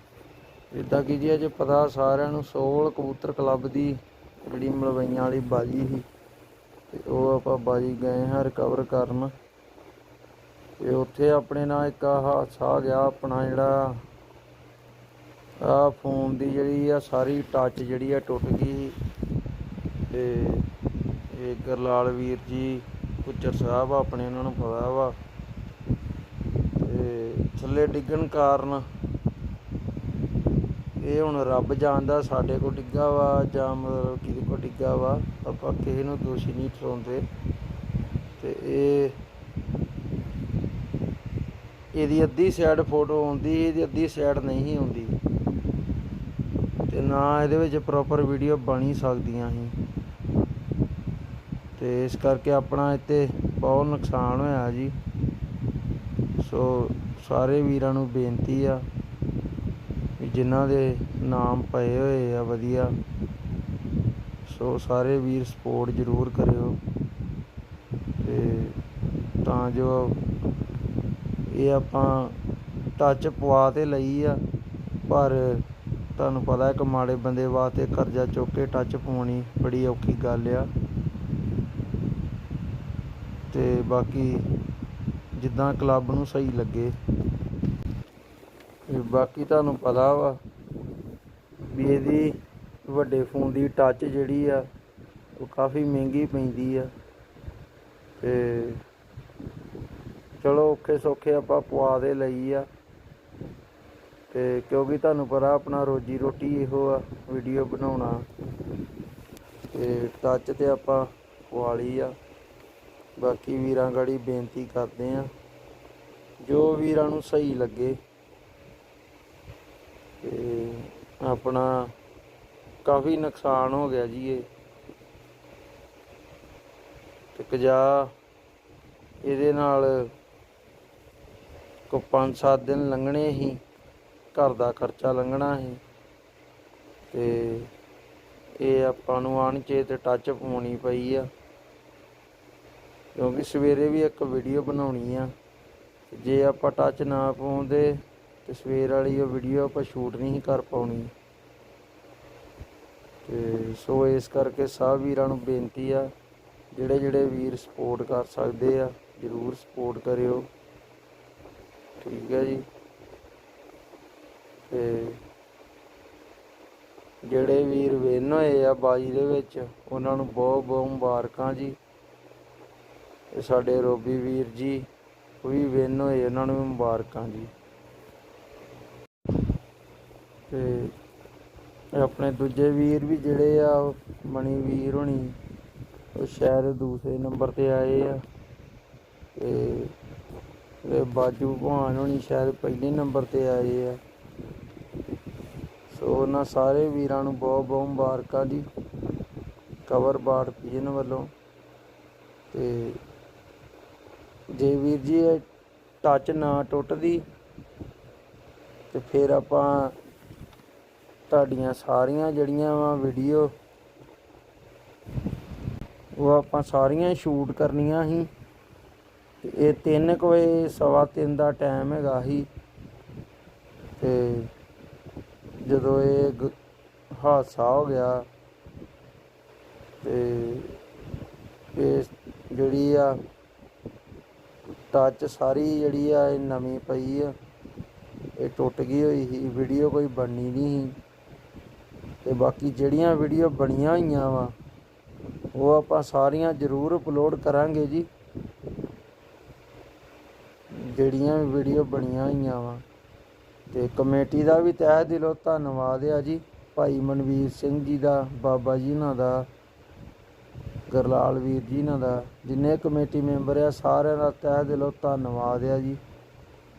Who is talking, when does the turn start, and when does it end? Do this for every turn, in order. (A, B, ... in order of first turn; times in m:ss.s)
0:00.7-0:06.0 A
0:06.9-0:09.3 A
0:10.8-0:14.0 A
0:15.6-0:19.0 A
0:20.1-0:20.7 A
0:21.3-0:25.1 A
0:26.8-0:28.9 A
0:31.0-0:37.2 A
0:38.4-0:39.2 A
0:42.0-0:45.2 A
0:46.9-0:49.8 A
0:51.8-0:55.0 A
0:56.4-0:58.8 A
1:00.2-1:03.0 A
1:04.4-1:06.8 A
1:08.2-1:08.8 A
1:09.4-1:10.2 A
1:11.5-1:12.4 A
1:13.0-1:14.4 A
1:15.1-1:20.7 A
1:23.5-1:24.4 A
1:25.4-1:27.0 A
1:28.9-1:30.4 A
1:31.7-1:32.3 A
1:32.8-1:34.7 A
1:35.4-1:36.9 A
1:38.2-1:38.8 A
1:40.4-1:42.7 A
1:44.3-1:48.2 A
1:49.7-1:52.2 A
1:53.2-1:55.3 A
1:56.4-1:58.0 A
2:00.2-2:01.9 A
2:02.8-2:04.4 A
2:07.4-2:08.1 A
2:09.2-2:10.1 A
2:11.9-2:13.6 A
2:14.3-2:15.8 A
2:17.1-2:17.7 A
2:18.6-2:21.3 A
2:23.1-2:25.3 A
2:26.1-2:31.1 A
2:33.2-2:36.1 A
2:36.7-2:40.5 A
2:42.0-2:42.6 A
2:44.7-2:45.2 A
2:47.2-2:51.8 A
2:53.3-2:54.9 A
2:55.4-2:57.5 A
3:00.5-3:00.9 A
3:02.0-3:05.4 A
3:06.1-3:08.2 A
3:09.4-3:09.9 A
3:10.8-3:14.0 A
3:15.9-3:18.7 A
3:19.8-3:21.3 A
3:22.5-3:23.0 A
3:24.5-3:25.4 A
3:26.0-3:27.2 A
3:28.9-3:29.9 A
3:31.3-3:33.5 A
3:36.2-3:38.3 A
3:39.4-3:42.5 A
3:44.0-3:44.5 A
3:45.6-3:46.5 A
3:47.1-3:48.2 A
3:50.0-3:50.8 A
3:51.7-3:53.2 A
3:54.9-3:57.3 A
3:58.4-4:01.0 A
4:02.2-4:04.5 A
4:05.5-4:08.1 A
4:10.7-4:12.8 A
4:13.7-4:19.5 A
4:20.9-4:26.0 A